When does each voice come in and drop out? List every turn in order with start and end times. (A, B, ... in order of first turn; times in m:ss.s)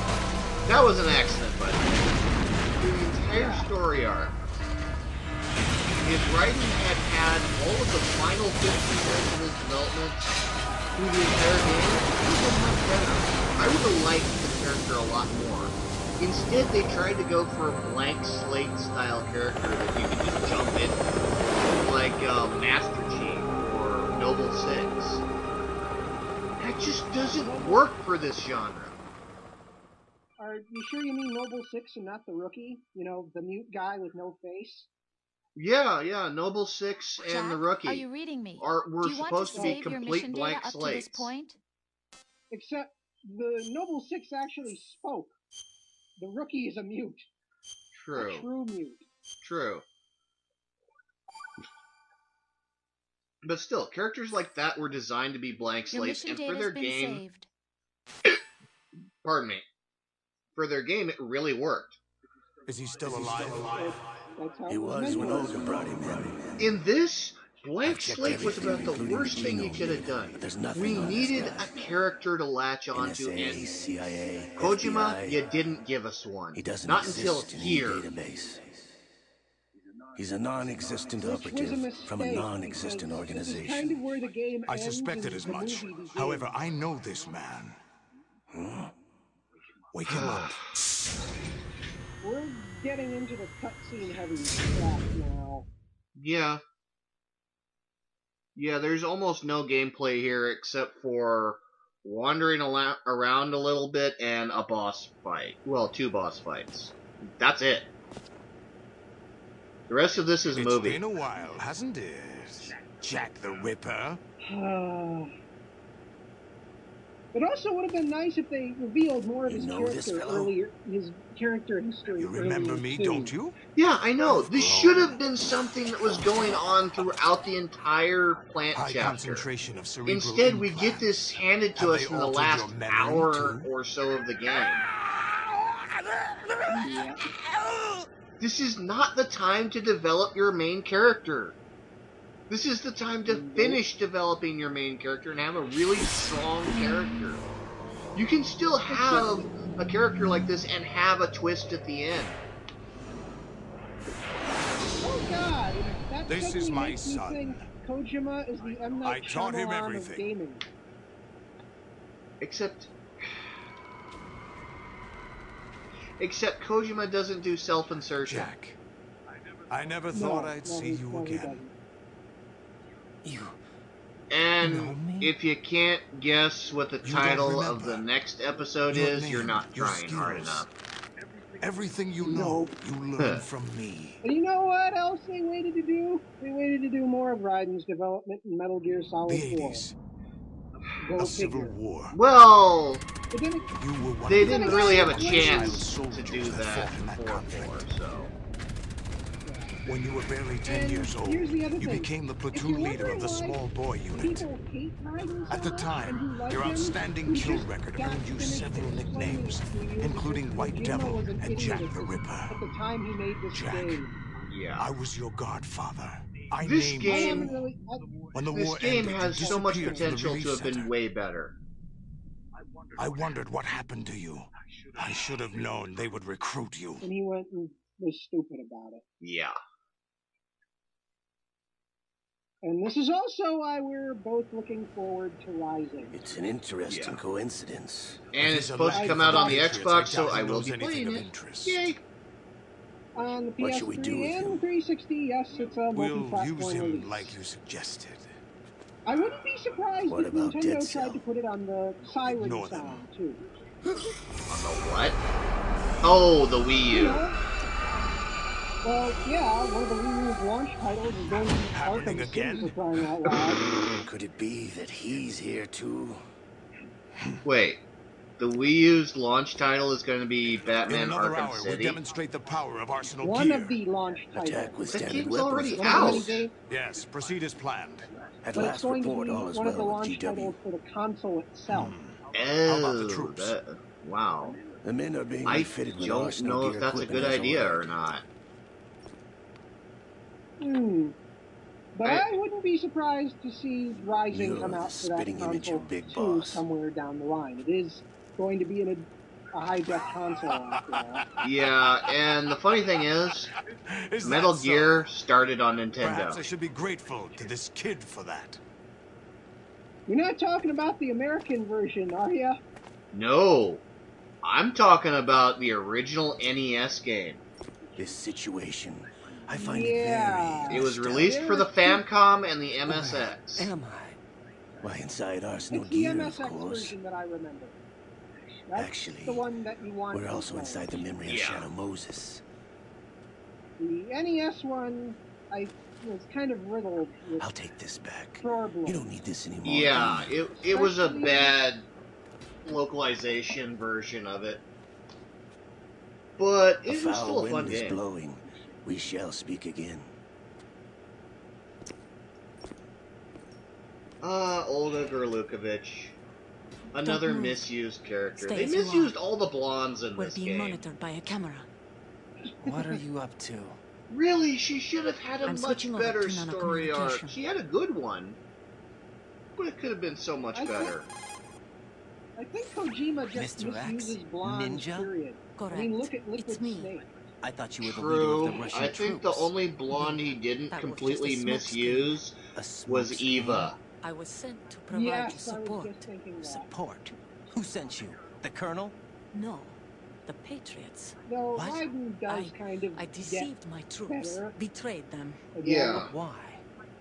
0:00.6-0:02.1 A
0:02.8-0:04.3 A
0:03.3-0:03.7 B
0:05.9-0:10.3 A
0:11.0-0:21.0 A
0:21.6-0:25.2 A
0:26.6-0:29.0 A
0:27.1-0:27.8 B
0:30.4-0:34.9 B
0:35.6-0:38.0 A
0:37.2-0:41.6 C
0:38.6-0:41.3 A
0:39.5-0:39.9 B
0:42.5-0:45.3 B
0:46.2-0:47.3 B
0:48.0-0:48.5 A
0:48.1-0:49.0 B
0:49.4-0:49.8 A
0:53.4-0:57.2 A
0:55.9-0:57.5 C
0:59.2-0:59.6 A
1:00.6-1:02.0 A
1:02.7-1:04.0 D
1:03.6-1:06.2 B
1:04.7-1:06.7 E
1:06.6-1:13.7 A
1:07.8-1:11.7 E
1:12.9-1:15.4 E
1:14.6-1:18.0 A
1:16.5-1:18.9 E
1:20.1-1:24.0 E
1:21.2-1:26.6 B
1:24.7-1:27.8 D
1:28.5-1:28.9 E
1:29.9-1:30.7 D
1:30.0-1:30.6 A
1:32.2-1:35.7 B
1:36.2-1:36.6 A
1:38.6-1:47.9 A
1:49.9-1:51.0 A
1:50.5-1:54.2 D
1:54.4-1:55.3 B
1:57.3-2:03.3 B
1:59.4-2:00.5 E
2:02.2-2:03.6 D
2:03.8-2:09.5 A
2:04.2-2:05.2 D
2:08.7-2:13.7 D
2:10.0-2:14.8 A
2:16.8-2:17.2 B
2:18.4-2:21.6 A
2:22.5-2:27.4 A
2:23.2-2:23.8 B
2:28.1-2:32.4 A
2:28.9-2:29.5 B
2:35.0-2:40.6 B
2:36.3-2:37.7 D
2:39.0-2:40.3 D
2:42.4-2:43.3 A
2:46.2-2:48.5 A
2:48.2-2:48.8 D
2:49.7-2:51.6 D
2:50.1-2:51.7 B
2:53.2-2:53.5 F
2:54.3-3:00.7 A
2:54.6-2:55.3 F
2:57.0-2:58.0 D
2:58.9-3:00.7 D
3:01.6-3:04.2 D
3:02.3-3:02.7 B
3:03.2-3:03.4 A
3:04.2-3:09.8 B
3:09.2-3:09.9 D
3:11.0-3:11.8 B
3:11.2-3:12.2 D
3:12.1-3:13.0 A
3:13.3-3:13.7 B
3:13.7-3:17.8 D
3:14.2-3:18.3 A
3:14.4-3:15.9 B
3:19.4-3:19.8 B
3:19.8-3:24.4 D
3:20.6-3:23.6 B
3:24.1-3:34.2 B
3:25.5-3:32.6 D
3:33.5-3:34.0 D
3:34.5-3:34.9 A
3:34.8-3:37.6 D
3:36.6-3:37.6 A
3:37.0-3:38.0 B
3:38.3-3:40.9 D
3:38.5-3:41.5 A
3:39.4-3:40.1 B
3:43.0-3:47.1 D
3:47.0-3:49.0 B
3:49.2-3:49.6 A
3:52.6-3:56.1 B
3:56.1-3:58.3 E
3:56.9-3:57.2 A
3:58.3-4:02.0 A
3:58.4-4:01.9 D
3:58.9-3:59.7 B
4:03.1-4:07.4 B
4:03.6-4:04.6 E
4:05.9-4:08.4 D
4:09.0-4:13.4 B
4:10.0-4:11.2 E
4:12.2-4:13.1 D
4:14.5-4:15.2 A
4:16.0-4:17.2 A
4:16.9-4:17.4 B
4:18.8-4:23.6 B
4:21.7-4:22.7 D
4:23.2-4:24.0 A
4:23.9-4:26.2 E
4:27.4-4:27.8 A
4:28.4-4:32.0 A
4:30.5-4:33.8 D
4:33.2-4:34.8 B
4:34.3-4:36.4 E
4:34.9-4:36.4 A
4:35.7-4:36.5 B
4:36.6-4:38.1 D
4:38.4-4:40.6 E
4:38.5-4:41.9 B
4:41.7-4:43.6 D
4:42.3-4:44.6 A
4:44.8-4:48.0 E
4:45.4-4:48.2 A
4:50.6-4:51.2 B
4:51.9-5:01.2 B
4:52.0-4:52.3 A
4:54.3-4:56.6 E
5:00.6-5:01.0 D
5:01.4-5:03.5 A
5:03.9-5:05.1 D
5:04.2-5:06.4 A
5:06.0-5:08.6 D
5:10.1-5:12.6 B
5:13.1-5:13.8 A
5:14.4-5:17.4 A
5:18.0-5:21.4 E
5:19.5-5:22.0 B
5:20.7-5:23.7 A
5:22.9-5:24.2 E
5:24.8-5:27.0 E
5:25.7-5:27.7 B
5:28.7-5:31.0 B
5:28.7-5:29.5 E
5:30.1-5:32.4 E
5:31.2-5:31.7 A
5:33.8-5:37.5 B
5:37.4-5:40.4 E
5:38.4-5:39.1 B
5:39.6-5:41.8 A
5:40.5-5:41.6 B
5:42.6-5:44.6 A
5:46.4-5:48.0 A
5:46.9-5:50.1 E
5:54.2-5:56.2 A
5:56.9-6:00.8 A
5:57.0-5:57.6 G
5:58.4-5:59.2 G
6:00.1-6:01.7 G
6:02.4-6:03.0 B
6:02.6-6:03.8 F
6:04.1-6:08.4 A
6:05.4-6:07.4 G
6:09.6-6:11.1 A
6:10.5-6:10.9 B
6:12.4-6:17.1 B
6:13.3-6:15.1 F
6:15.6-6:16.9 G
6:17.4-6:19.5 F
6:17.8-6:23.8 A
6:19.9-6:20.2 G
6:20.7-6:22.2 G
6:22.6-6:23.7 F
6:23.9-6:26.1 G
6:24.9-6:26.7 B
6:26.4-6:28.9 F
6:29.3-6:31.2 G
6:31.2-6:33.5 B
6:31.5-6:31.9 F
6:32.3-6:35.4 G
6:34.1-6:34.6 B
6:35.5-6:36.1 B
6:35.6-6:36.1 A
6:36.0-6:36.6 F